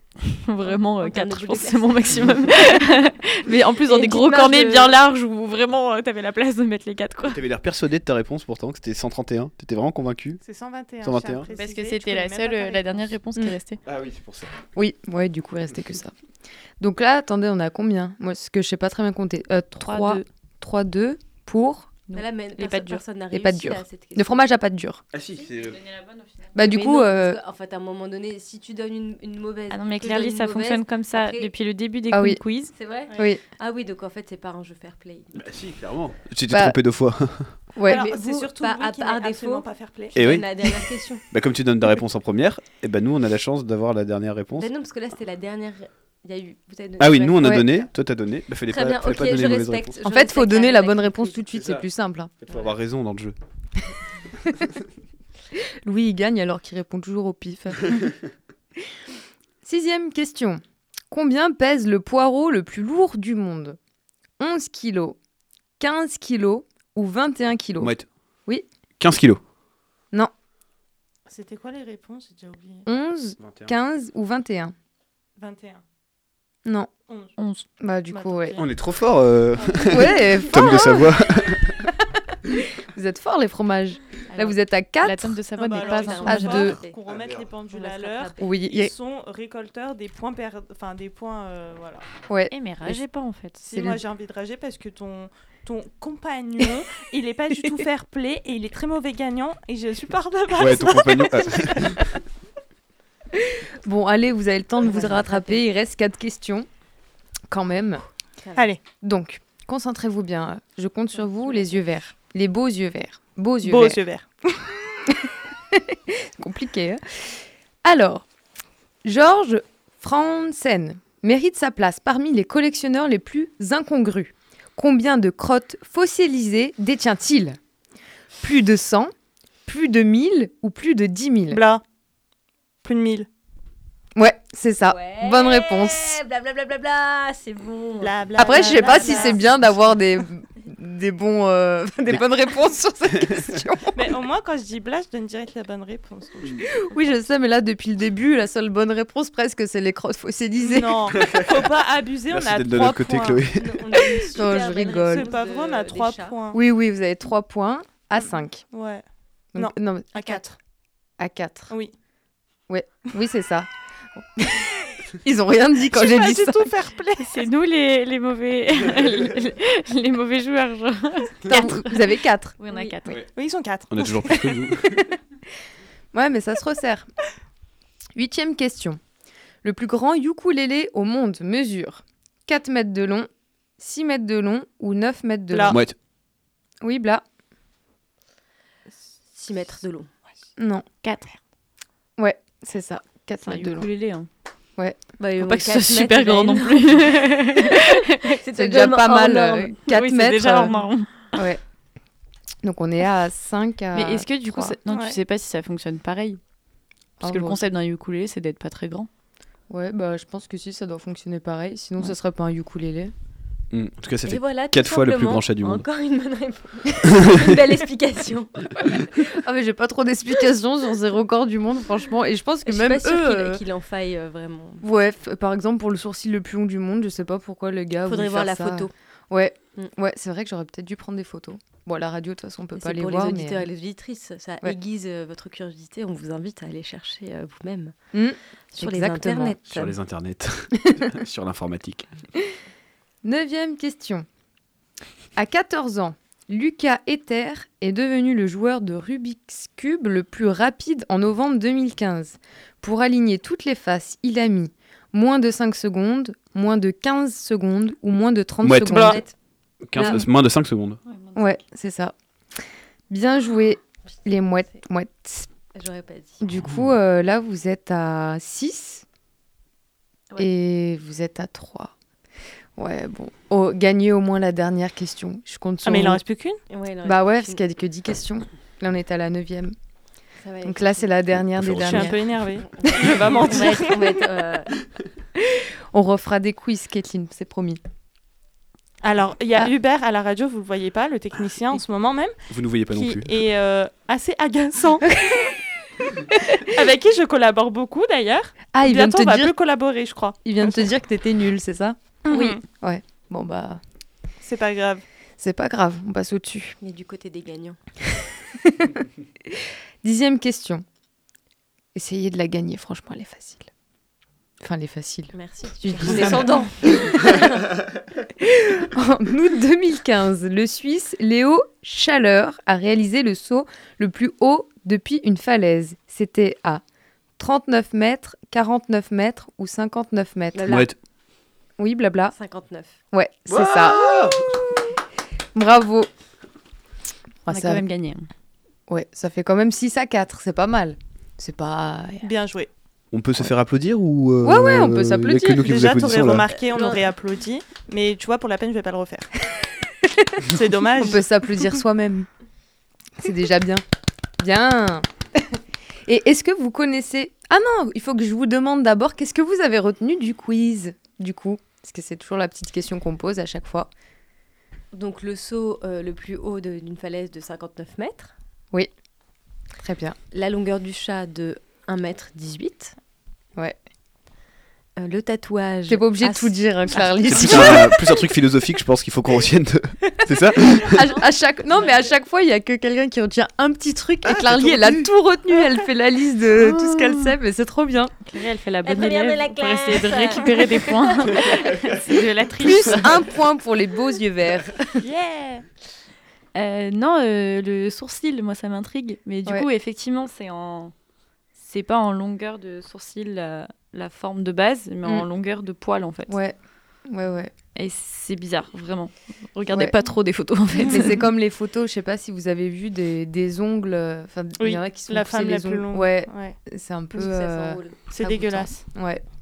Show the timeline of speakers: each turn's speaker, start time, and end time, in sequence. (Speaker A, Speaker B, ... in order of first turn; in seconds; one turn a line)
Speaker A: 0.3-7.4
Speaker B: 0.6-2.6
Speaker B: 3.9-5.0
Speaker C: 7.2-10.4
Speaker D: 10.4-13.1
Speaker C: 11.0-11.5
Speaker A: 11.5-13.8
Speaker C: 13.8-14.6
Speaker E: 14.8-16.1
Speaker E: 16.8-21.9
Speaker A: 19.8-20.2
Speaker A: 22.1-23.0
Speaker B: 22.1-24.5
Speaker E: 23.3-25.0
Speaker C: 25.1-25.9
Speaker E: 26.6-27.4
Speaker B: 26.6-31.5
Speaker A: 29.7-32.7
Speaker E: 32.1-32.4
Speaker B: 32.8-35.4
Speaker E: 33.2-33.4
Speaker C: 35.3-37.5
Speaker E: 36.5-36.8
Speaker E: 37.8-38.1
Speaker D: 37.8-40.2
Speaker B: 37.8-41.2
Speaker C: 40.1-40.8
Speaker C: 41.3-44.7
Speaker B: 44.6-47.8
Speaker C: 47.0-50.0
Speaker B: 48.7-51.4
Speaker E: 50.0-52.3
Speaker C: 51.5-51.9
Speaker C: 52.5-53.3
Speaker E: 55.5-58.1
Speaker E: 59.6-63.8
Speaker E: 64.4-65.2
Speaker E: 65.8-67.9
Speaker C: 67.8-68.1
Speaker C: 69.0-69.4
Speaker D: 71.3-72.9
Speaker E: 72.9-74.7
Speaker C: 73.4-73.7
Speaker D: 75.4-75.8
Speaker E: 76.7-76.9
Speaker D: 77.1-77.3
Speaker A: 77.4-77.7
Speaker E: 77.8-78.6
Speaker D: 78.1-78.7
Speaker C: 78.6-81.8
Speaker E: 79.8-81.3
Speaker E: 82.4-85.4
Speaker A: 85.0-86.7
Speaker D: 85.6-92.1
Speaker B: 85.8-87.0
Speaker E: 86.2-86.8
Speaker C: 87.1-87.4
Speaker B: 87.7-88.5
Speaker E: 88.4-88.9
Speaker E: 92.3-93.0
Speaker A: 92.5-93.6
Speaker D: 93.6-102.2
Speaker E: 93.7-94.0
Speaker C: 100.6-102.1
Speaker E: 103.4-106.7
Speaker B: 104.8-105.6
Speaker E: 107.5-108.0
Speaker B: 108.4-108.7
Speaker D: 108.6-108.8
Speaker E: 108.9-117.3
Speaker B: 111.3-111.7
Speaker D: 113.6-114.3
Speaker E: 117.8-118.3
Speaker E: 119.0-127.6
Speaker E: 128.4-129.1
Speaker E: 129.7-131.6
Speaker D: 131.5-131.8
Speaker D: 132.8-133.3
Speaker E: 134.2-136.2
Speaker B: 134.8-140.0
Speaker D: 138.0-139.4
Speaker E: 138.4-144.1
Speaker C: 143.1-143.5
Speaker D: 143.9-146.7
Speaker E: 146.6-151.2
Speaker D: 150.6-153.5
Speaker C: 151.2-151.5
Speaker C: 152.3-154.1
Speaker B: 153.5-156.4
Speaker E: 154.3-155.3
Speaker D: 154.9-156.6
Speaker E: 156.5-158.6
Speaker D: 158.7-159.0
Speaker E: 159.6-160.4
Speaker D: 159.6-160.6
Speaker E: 161.2-161.7
Speaker E: 162.7-166.7
Speaker D: 165.9-167.4
Speaker A: 167.2-173.2
Speaker E: 171.4-173.2
Speaker B: 172.7-173.0
Speaker D: 173.3-174.4
Speaker C: 173.9-175.1
Speaker E: 174.3-175.2
Speaker E: 176.1-177.1
Speaker E: 178.2-179.0
Speaker E: 179.6-185.8
Speaker D: 185.5-185.8
Speaker C: 185.7-185.9
Speaker E: 186.8-187.2
Speaker B: 189.3-190.1
Speaker E: 190.6-190.8
Speaker A: 191.0-191.4
Speaker E: 192.2-193.9
Speaker A: 193.4-194.3
Speaker B: 195.2-199.8
Speaker A: 195.4-198.3
Speaker E: 198.5-200.7
Speaker A: 199.8-201.3
Speaker E: 201.3-201.6
Speaker E: 202.6-204.8
Speaker A: 203.9-206.4
Speaker D: 204.9-205.2
Speaker A: 207.2-209.1
Speaker E: 207.2-207.6
Speaker E: 209.7-213.1
Speaker C: 213.7-215.8
Speaker B: 214.3-219.2
Speaker C: 217.2-217.5
Speaker E: 218.9-223.6
Speaker B: 222.7-224.8
Speaker E: 224.8-233.7
Speaker B: 228.1-228.9
Speaker B: 232.8-237.9
Speaker E: 238.1-239.6
Speaker B: 238.7-240.0
Speaker C: 239.7-242.1
Speaker E: 243.2-244.3
Speaker E: 245.3-259.2
Speaker C: 258.6-259.2
Speaker B: 258.9-259.3
Speaker C: 259.8-261.0
Speaker B: 260.0-260.2
Speaker A: 261.1-261.5
Speaker E: 261.4-262.1
Speaker E: 263.1-265.5
Speaker B: 265.7-266.4
Speaker E: 266.4-269.0
Speaker C: 266.6-266.9
Speaker E: 270.4-271.9
Speaker E: 272.8-276.2
Speaker D: 275.8-276.6
Speaker B: 276.7-277.6
Speaker E: 277.1-279.7
Speaker B: 280.4-281.1
Speaker E: 280.6-282.2
Speaker C: 281.3-282.2
Speaker D: 281.8-284.2
Speaker B: 282.6-284.7
Speaker E: 282.8-283.4
Speaker E: 285.4-287.8
Speaker D: 289.0-292.3
Speaker C: 292.5-293.3
Speaker D: 292.9-295.1
Speaker E: 295.1-295.5
Speaker D: 296.6-300.9
Speaker E: 298.7-299.5
Speaker E: 300.4-303.8
Speaker D: 302.3-302.6
Speaker D: 304.4-305.0
Speaker E: 305.4-306.8
Speaker B: 306.8-307.8
Speaker E: 308.6-310.8
Speaker E: 311.9-313.7
Speaker E: 314.6-317.5
Speaker B: 315.3-317.6
Speaker E: 318.4-326.8
Speaker E: 327.4-330.8
Speaker B: 330.5-330.9
Speaker C: 330.7-330.9
Speaker E: 331.8-332.3
Speaker B: 332.3-332.9
Speaker E: 333.1-334.1
Speaker C: 333.5-334.7
Speaker E: 335.5-336.1
Speaker E: 337.4-337.8
Speaker A: 337.5-338.3
Speaker E: 338.9-342.2
Speaker D: 342.2-342.7
Speaker C: 343.1-346.5
Speaker E: 344.4-345.7
Speaker D: 345.6-349.3
Speaker B: 346.6-347.0
Speaker E: 350.0-350.4
Speaker D: 350.4-351.7
Speaker E: 350.9-352.3
Speaker E: 353.2-353.8
Speaker E: 354.4-355.6
Speaker E: 356.1-363.9
Speaker B: 364.9-368.3
Speaker E: 369.8-370.2
Speaker B: 370.3-372.9
Speaker B: 375.0-378.1
Speaker E: 375.9-378.2
Speaker C: 377.3-381.1
Speaker E: 380.3-388.1
Speaker C: 384.2-385.1
Speaker A: 386.6-387.2
Speaker A: 388.3-393.2
Speaker B: 388.8-391.7
Speaker E: 392.6-395.0
Speaker D: 395.0-395.7
Speaker A: 396.6-400.9
Speaker A: 401.6-406.4
Speaker E: 406.3-406.6
Speaker E: 407.1-407.5
Speaker A: 407.8-411.3
Speaker D: 410.8-411.1
Speaker E: 410.8-419.2
Speaker D: 414.6-416.6
Speaker B: 417.1-417.9
Speaker D: 418.1-418.8